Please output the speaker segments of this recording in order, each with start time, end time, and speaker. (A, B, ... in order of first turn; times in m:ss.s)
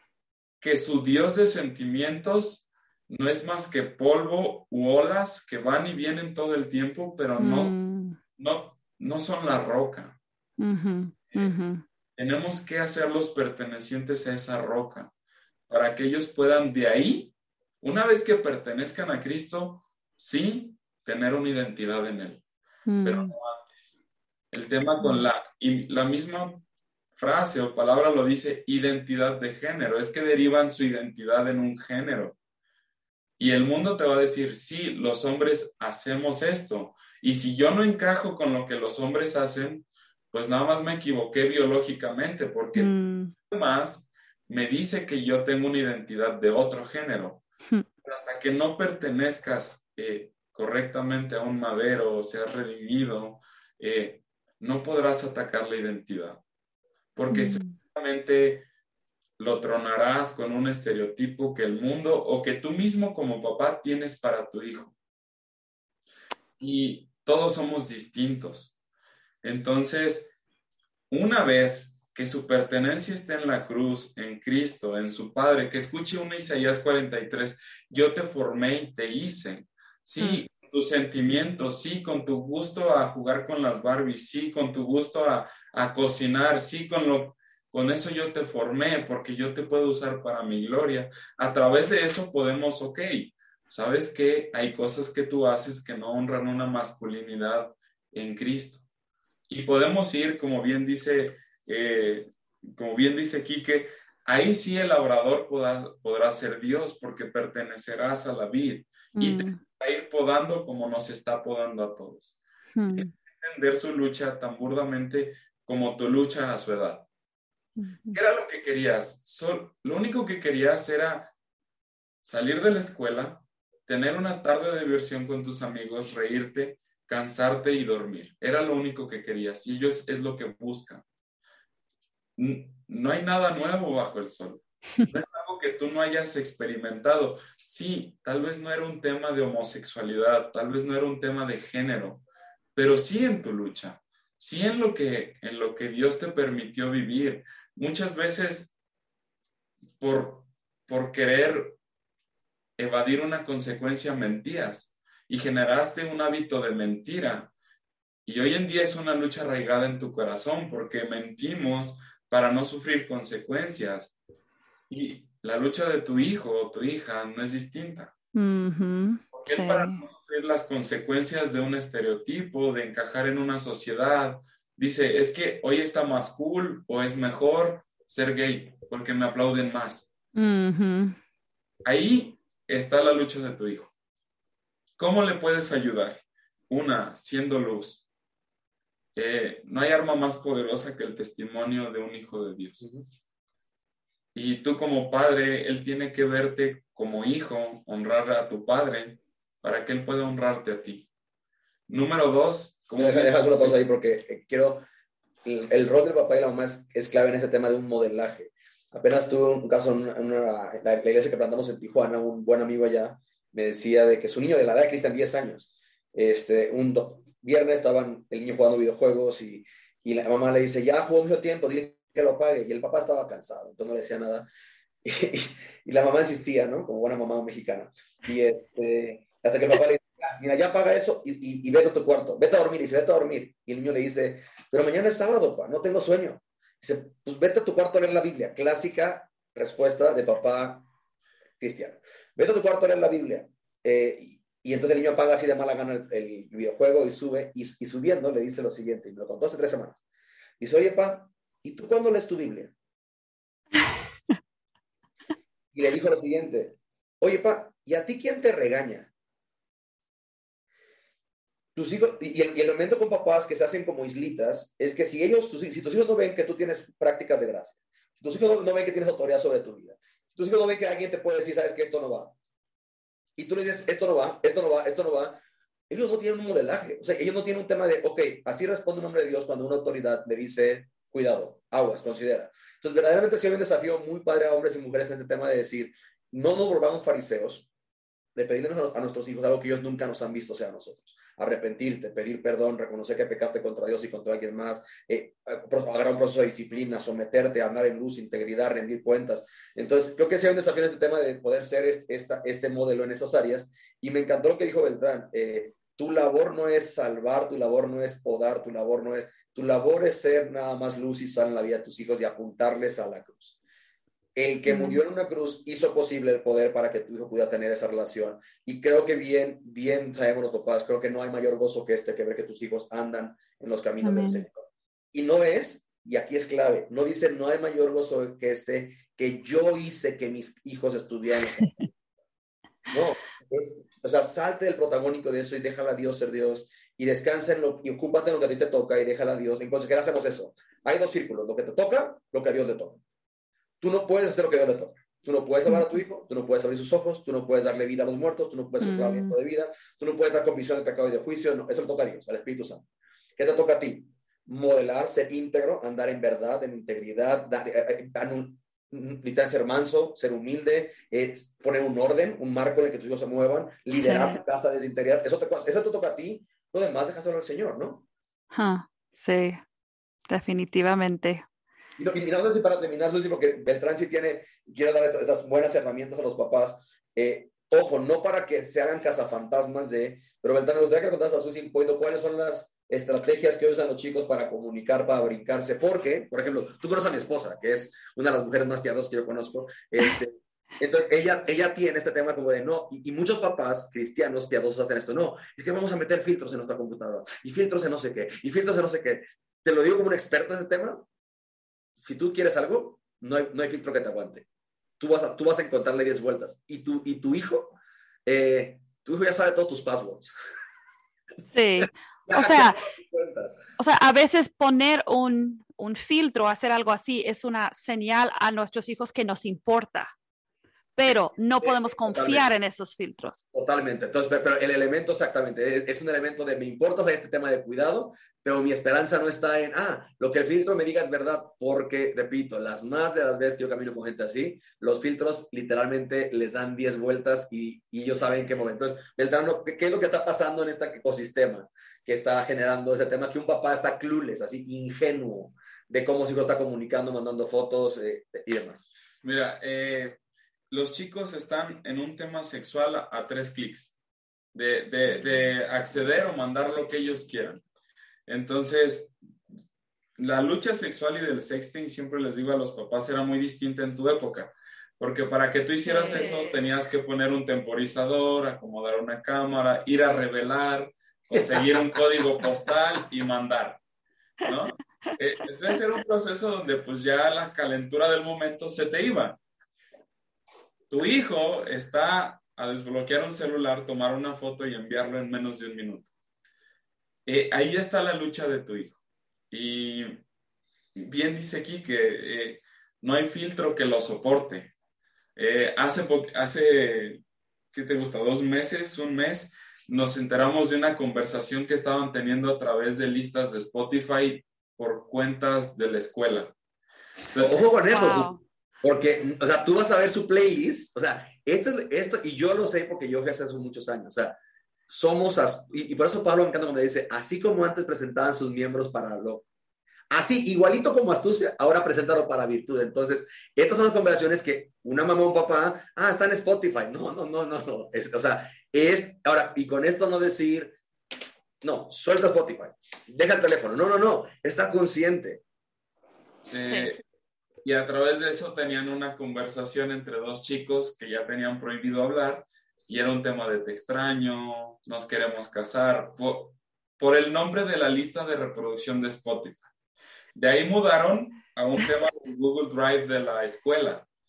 0:00.6-0:07.8 A
0:07.4-0:08.2 B
0:08.4-0:10.2 A
0:10.6-0:11.8 B
0:11.3-0:11.6 A
0:12.2-0:15.1 A
0:15.7-0:22.4 A
0:22.9-0:23.3 B
0:23.0-0:23.9 A
0:24.5-0:26.6 A
0:25.0-0:25.3 B
0:27.2-0:32.4 A
0:33.4-0:42.9 A
0:42.8-0:43.3 B
0:43.5-0:47.4 A
0:48.0-0:56.4 A
0:57.2-0:58.7 A
0:57.3-0:57.8 B
0:59.4-1:05.0 A
1:06.6-1:08.7 A
1:09.4-1:10.3 A
1:11.1-1:38.8 A
1:20.2-1:20.5 B
1:39.5-1:52.4 A
1:49.2-1:49.6 B
1:52.8-1:53.1 B
1:52.9-1:57.1 A
1:57.8-1:58.2 B
1:58.1-2:01.3 A
2:02.2-2:11.0 A
2:12.4-2:28.7 A
2:30.0-2:31.8 A
2:32.8-2:37.5 A
2:38.2-2:44.1 A
2:44.9-2:48.1 A
2:48.3-2:50.0 B
2:49.3-3:00.1 A
3:00.4-3:01.2 B
3:01.8-3:03.9 A
3:05.0-3:08.0 A
3:09.2-3:12.9 A
3:14.3-3:21.1 A
3:21.9-3:23.8 A
3:23.0-3:24.8 C
3:25.4-3:44.5 C
3:45.0-4:00.9 C
4:01.6-4:10.0 C
4:10.6-4:12.7 C
4:15.7-4:19.1 C
4:21.8-4:32.3 C
4:33.4-4:47.7 C
4:48.4-5:13.6 C
5:14.4-5:24.6 C
5:14.7-5:15.0 B
5:24.0-5:24.5 B
5:25.1-5:31.9 C
5:32.9-5:43.0 C
5:43.8-5:52.8 C
5:48.8-5:49.4 B
5:53.4-6:08.0 C
6:03.9-6:04.4 B
6:08.5-6:09.6 B
6:10.3-6:11.4 B
6:12.0-6:41.0 C
6:42.0-6:44.5 C
6:45.0-6:50.3 C
6:51.5-6:52.8 B
6:52.3-6:53.6 C
6:53.8-7:00.1 B
7:01.0-7:03.4 B
7:01.1-7:02.5 C
7:03.5-7:28.9 C
7:29.2-7:30.2 A
7:30.7-7:34.0 A
7:34.5-7:37.6 A
7:38.3-7:39.1 A
7:40.2-7:53.8 A
7:45.9-7:46.5 B
7:54.4-7:59.4 A
8:00.9-8:06.1 A
8:07.3-8:09.0 A
8:09.5-8:10.2 A
8:11.0-8:14.7 A
8:15.4-8:26.5 A
8:27.4-8:28.3 C
8:27.9-8:28.4 B
8:28.8-8:34.4 C
8:34.9-8:39.5 C
8:40.1-8:50.8 C
8:51.6-8:55.4 C
8:56.5-8:57.0 A
8:56.7-8:57.0 B
8:57.6-9:09.7 A
9:10.4-9:14.1 A